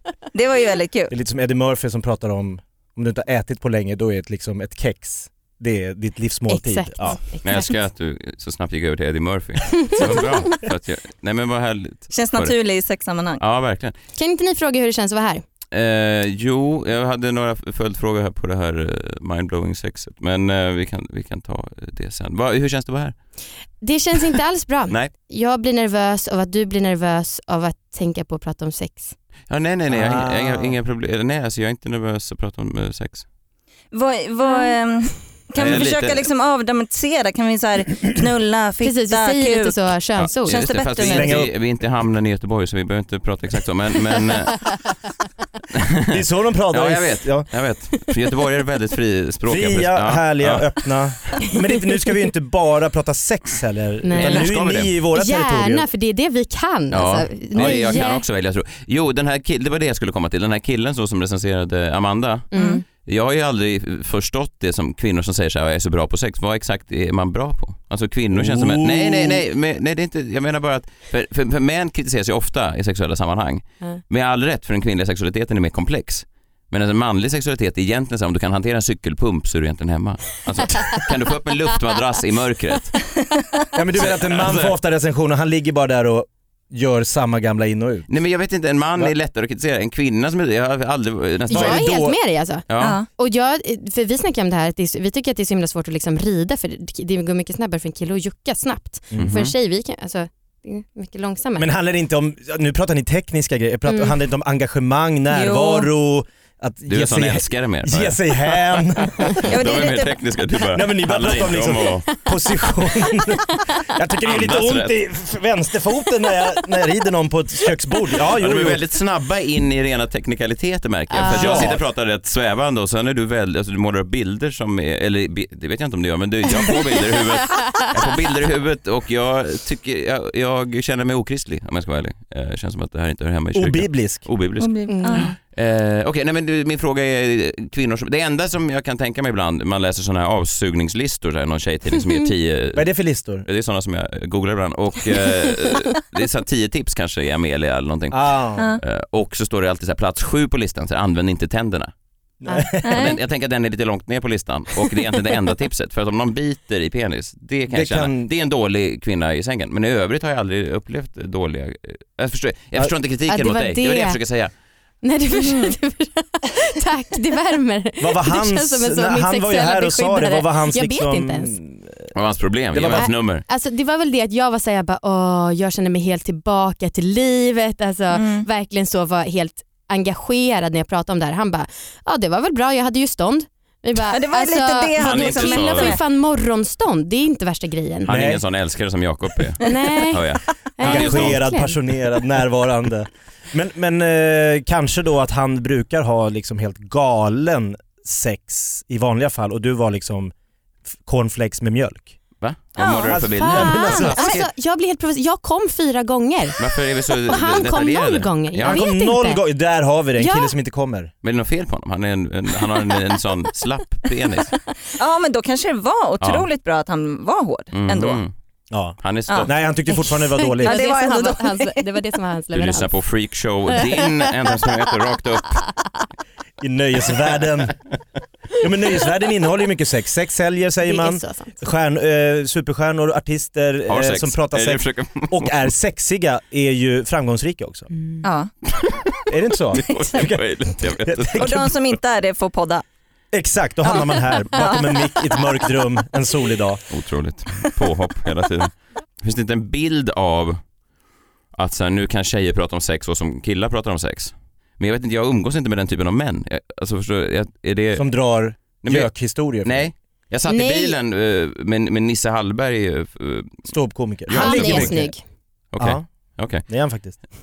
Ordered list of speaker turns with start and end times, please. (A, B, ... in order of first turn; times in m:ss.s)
0:00.3-0:01.1 A
0:01.1-0:07.2 B
0:06.5-0:07.7 C
0:07.4-0:12.5 D
0:09.7-0:10.3 C
0:12.1-0:13.4 A
0:13.4-0:13.9 D
0:14.2-0:15.4 C
0:15.7-0:23.2 D
0:23.8-0:29.1 C
0:29.5-0:33.2 D
0:29.9-0:30.7 B
0:33.9-0:41.4 A
0:34.4-0:34.7 C
0:35.5-0:36.2 D
0:38.8-0:40.7 C
0:40.2-0:44.6 D
0:41.0-0:41.5 B
0:45.7-0:46.1 D
0:46.1-0:47.5 B
0:46.7-0:50.7 D
0:49.4-0:55.8 B
0:54.0-0:54.5 C
0:54.1-0:54.9 D
0:55.1-0:58.2 C
0:56.9-1:02.5 D
0:57.6-0:57.9 B
1:02.5-1:02.8 C
1:02.5-1:02.8 A
1:03.0-1:23.0 D
1:08.3-1:09.4 B
1:23.7-1:28.1 B
1:24.0-1:24.8 D
1:28.1-1:31.9 D
1:31.5-1:32.2 B
1:31.5-1:41.7 C
1:32.7-1:33.0 D
1:32.8-1:33.1 A
1:39.1-1:39.4 B
1:39.2-1:39.5 D
1:41.6-1:49.5 B
1:43.9-1:44.1 C
1:45.3-1:45.9 A
1:46.9-1:52.1 D
1:49.4-1:50.2 A
1:50.7-1:58.8 B
1:52.6-1:53.4 C
1:54.2-1:54.9 D
1:58.4-2:22.9 D
2:01.1-2:01.7 C
2:01.2-2:01.8 B
2:13.5-2:14.2 B
2:14.6-2:15.3 A
2:14.9-2:15.3 C
2:22.7-2:23.4 B
2:23.4-2:31.9 D
2:28.1-2:28.7 B
2:32.4-2:33.1 B
2:32.5-2:32.7 C
2:32.8-2:33.2 A
2:32.8-2:44.5 D
2:37.7-2:38.3 B
2:43.3-2:44.2 C
2:45.0-2:51.5 C
2:45.4-2:45.8 A
2:48.0-2:52.1 B
2:52.1-2:53.4 D
2:52.7-2:53.1 B
2:52.9-3:08.1 C
2:58.1-2:58.5 A
3:04.0-3:06.0 A
3:05.0-3:06.0 D
3:08.0-3:11.4 D
3:08.0-3:08.4 B
3:09.6-3:11.8 C
3:09.6-3:09.9 A
3:10.8-3:20.3 B
3:21.0-3:22.2 B
3:22.4-3:24.5 D
3:22.8-3:26.6 C
3:23.1-3:24.4 B
3:26.6-3:28.8 D
3:27.3-3:29.4 C
3:28.6-3:31.1 B
3:30.2-3:30.5 C
3:31.2-3:34.5 D
3:35.0-3:38.2 A
3:36.2-3:36.4 D
3:37.7-3:38.3 D
3:38.7-3:40.8 B
3:39.0-3:39.5 D
3:39.9-3:42.9 C
3:40.6-3:42.0 A
3:42.5-3:45.6 D
3:43.7-3:44.1 C
3:46.6-3:47.8 B
3:48.6-3:57.9 B
3:50.9-3:51.6 C
3:53.9-3:55.7 D
3:58.2-3:58.5 A
3:58.7-4:01.7 D
3:59.3-4:01.7 B
4:01.3-4:02.8 A
4:03.3-4:06.8 B
4:03.8-4:05.5 A
4:06.9-4:10.6 D
4:11.5-4:18.1 D
4:18.0-4:19.9 B
4:18.8-4:23.7 D
4:20.5-4:21.0 C
4:23.6-4:25.1 B
4:24.3-4:25.0 D
4:24.3-4:25.2 C
4:25.7-4:26.7 D
4:25.8-4:26.0 B
4:26.6-4:27.2 B